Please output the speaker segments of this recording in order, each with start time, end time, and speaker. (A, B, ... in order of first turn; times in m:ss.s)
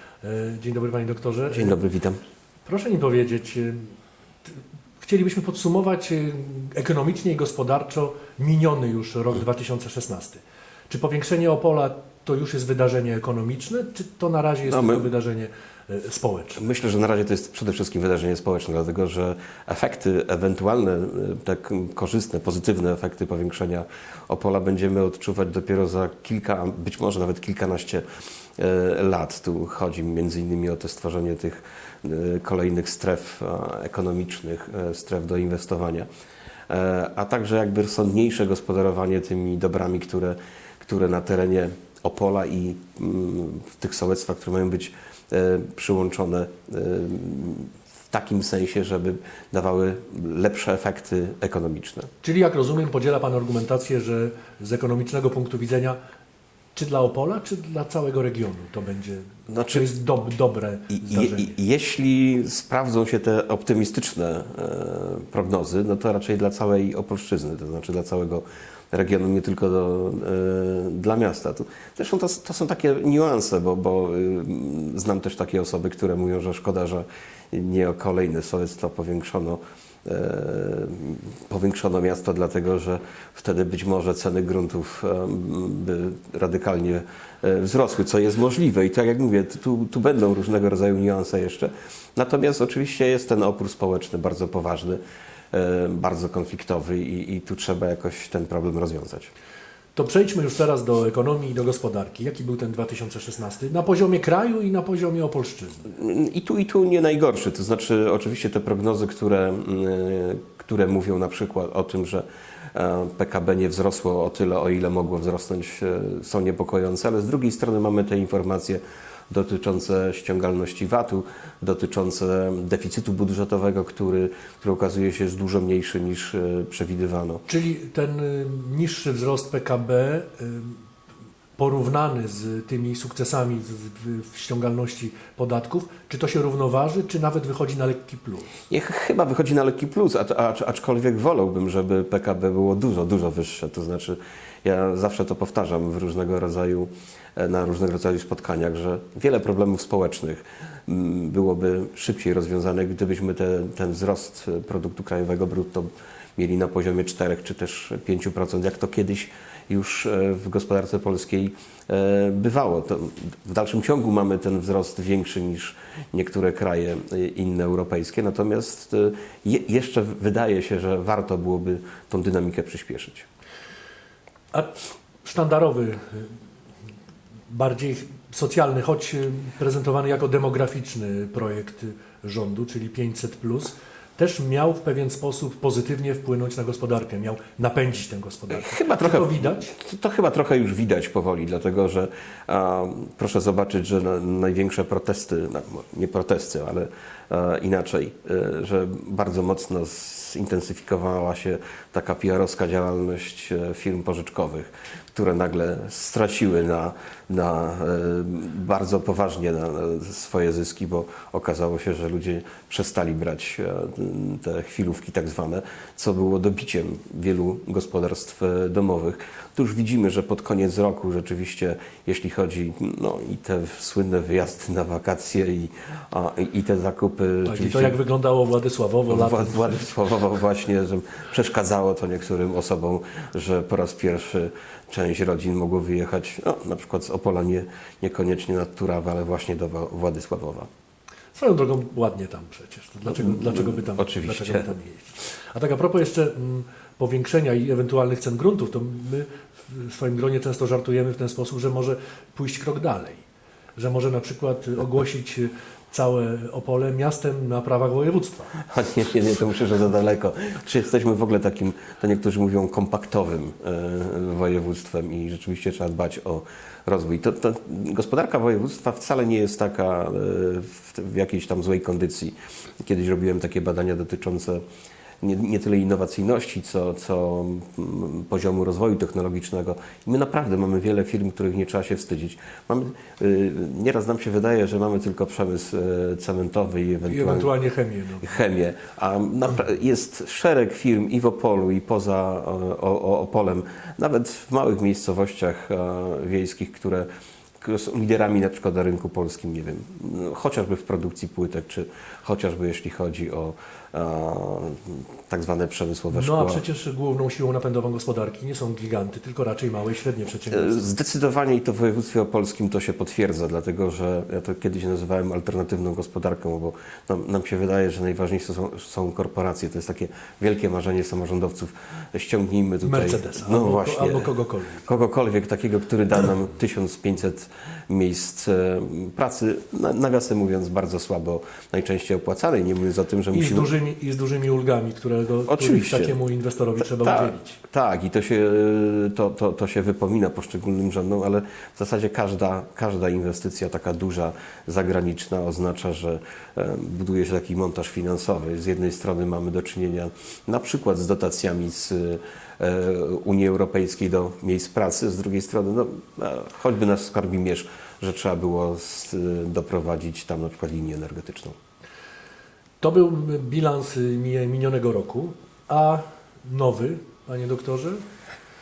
0:00.2-0:01.8 A
0:01.5-0:02.2 B
0:02.7-0:03.9 A
0:04.5-0:16.6 A
0:14.7-0:15.1 B
0:16.6-0:28.0 B
0:28.6-0:36.1 B
0:36.7-0:52.1 B
0:52.2-0:56.0 A
0:56.8-1:01.6 A
0:59.5-0:59.8 B
1:00.9-1:35.0 B
1:35.5-1:39.3 B
1:40.0-1:45.9 A
1:45.9-2:07.4 B
2:07.5-2:10.8 A
2:11.6-2:18.5 A
2:18.7-2:53.3 B
2:54.5-2:56.3 A
2:57.5-3:09.7 A
3:08.5-3:48.0 B
3:47.5-3:49.8 A
3:49.1-4:00.7 B
4:01.4-4:13.2 A
4:03.1-4:04.7 B
4:13.8-4:18.6 A
4:18.6-4:34.6 B
4:35.2-4:47.5 B
4:47.1-4:48.4 A
4:48.2-4:57.1 B
4:57.6-5:06.6 B
5:06.1-5:10.8 A
5:10.5-5:24.3 B
5:22.8-5:24.9 A
5:24.8-5:33.7 B
5:33.3-5:37.6 A
5:35.5-5:36.2 B
5:36.8-6:01.6 B
6:02.8-6:08.0 A